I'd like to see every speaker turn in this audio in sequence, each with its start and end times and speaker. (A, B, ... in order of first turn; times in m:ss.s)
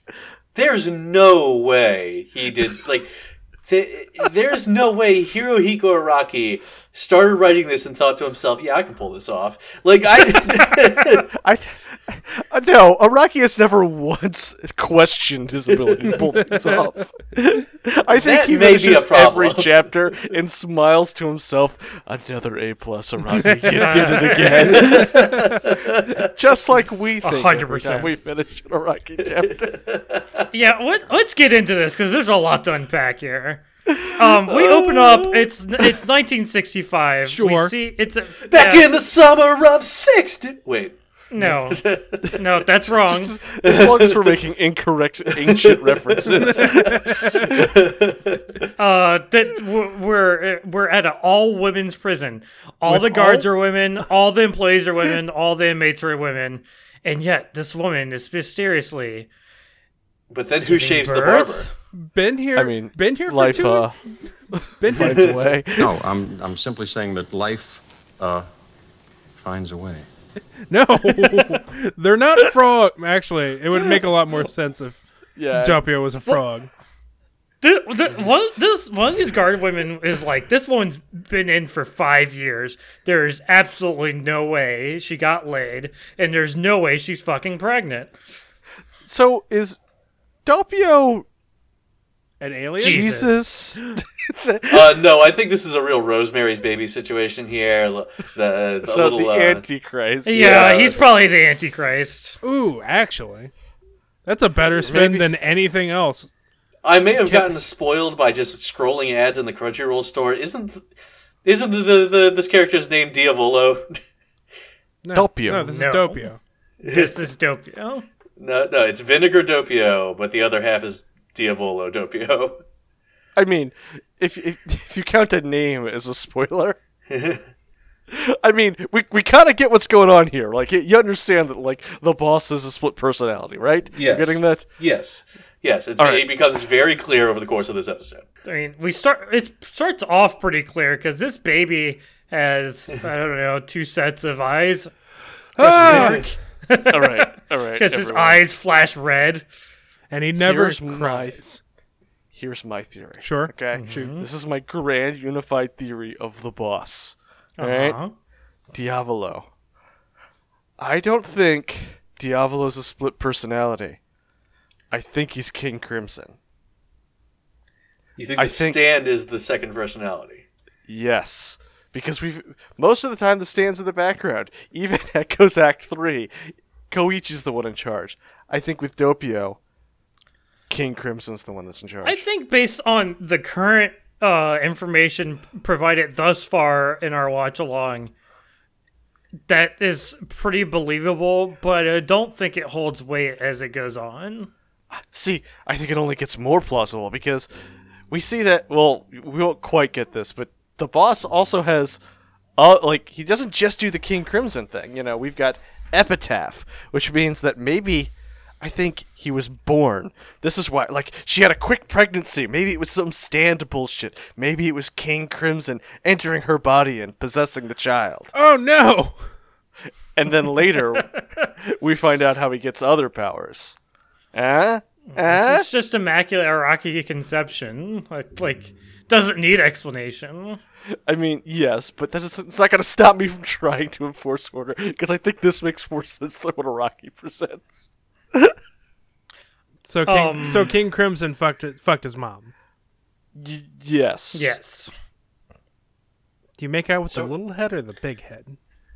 0:00.5-0:03.1 A
0:03.6-0:11.3 A
0:11.3-0:29.8 B
0:18.1-0:19.7 A
0:23.7-0:24.9 C
0:24.6-0:26.2 A
0:27.2-0:28.1 C
0:29.9-0:30.4 A
0:30.5-0:38.9 C
0:33.9-0:35.0 B
0:37.3-0:37.7 D
0:38.4-0:42.4 A
0:41.3-0:43.4 C
0:43.0-0:47.8 B
0:43.6-0:44.4 A
0:45.3-0:48.7 A
0:46.4-0:47.2 D
0:48.8-0:59.3 C
0:52.9-0:53.5 D
1:00.3-1:01.7 A
1:00.6-1:01.7 C
1:01.9-1:03.9 D
1:02.5-1:04.0 B
1:04.5-1:05.9 B
1:04.8-1:05.6 D
1:04.9-1:05.3 A
1:05.8-1:08.5 E
1:09.3-1:10.1 E
1:10.7-1:16.7 D
1:13.7-1:14.0 B
1:15.4-1:15.8 B
1:17.6-1:28.1 C
1:29.0-1:29.8 B
1:30.4-1:31.2 B
1:32.4-1:33.0 D
1:32.8-1:33.4 C
1:32.8-1:35.0 B
1:34.7-1:39.6 A
1:38.8-1:41.0 B
1:40.2-1:42.4 C
1:40.4-1:41.0 A
1:42.4-1:43.5 D
1:44.2-1:46.3 D
1:44.7-1:45.3 B
1:46.8-1:50.8 A
1:47.1-1:47.6 B
1:51.4-1:54.0 A
1:55.0-1:56.4 D
1:55.1-1:55.7 B
1:55.7-1:56.3 C
1:56.8-1:57.2 A
1:56.8-1:58.0 C
1:58.4-2:02.6 A
2:03.4-2:06.8 B
2:07.1-2:07.5 A
2:08.1-2:14.7 B
2:13.9-2:18.2 A
2:16.0-2:16.3 B
2:18.4-2:24.9 C
2:25.6-2:26.2 D
2:25.6-2:26.3 B
2:25.8-2:26.2 A
2:26.7-2:29.4 C
2:26.9-2:28.4 B
2:30.1-2:31.6 D
2:30.4-2:31.4 B
2:32.3-2:38.0 B
2:33.2-2:33.5 D
2:33.7-2:34.3 C
2:37.6-2:38.1 C
2:38.7-2:39.5 B
2:40.8-2:44.0 B
2:44.9-2:46.4 B
2:48.2-2:50.4 A
2:48.4-2:48.8 B
2:50.9-2:59.6 B
3:00.7-3:02.2 B
3:02.0-3:08.1 C
3:09.5-3:14.5 C
3:14.9-3:17.5 B
3:18.1-3:22.0 B
3:22.6-3:38.3 B
3:38.3-3:39.2 D
3:40.1-3:43.8 B
3:44.3-3:45.7 B
3:45.1-3:50.6 C
3:51.1-3:58.5 B
3:59.8-4:02.5 D
4:00.0-4:00.7 C
4:03.3-4:04.6 B
4:04.3-4:04.9 C
4:06.6-4:08.6 D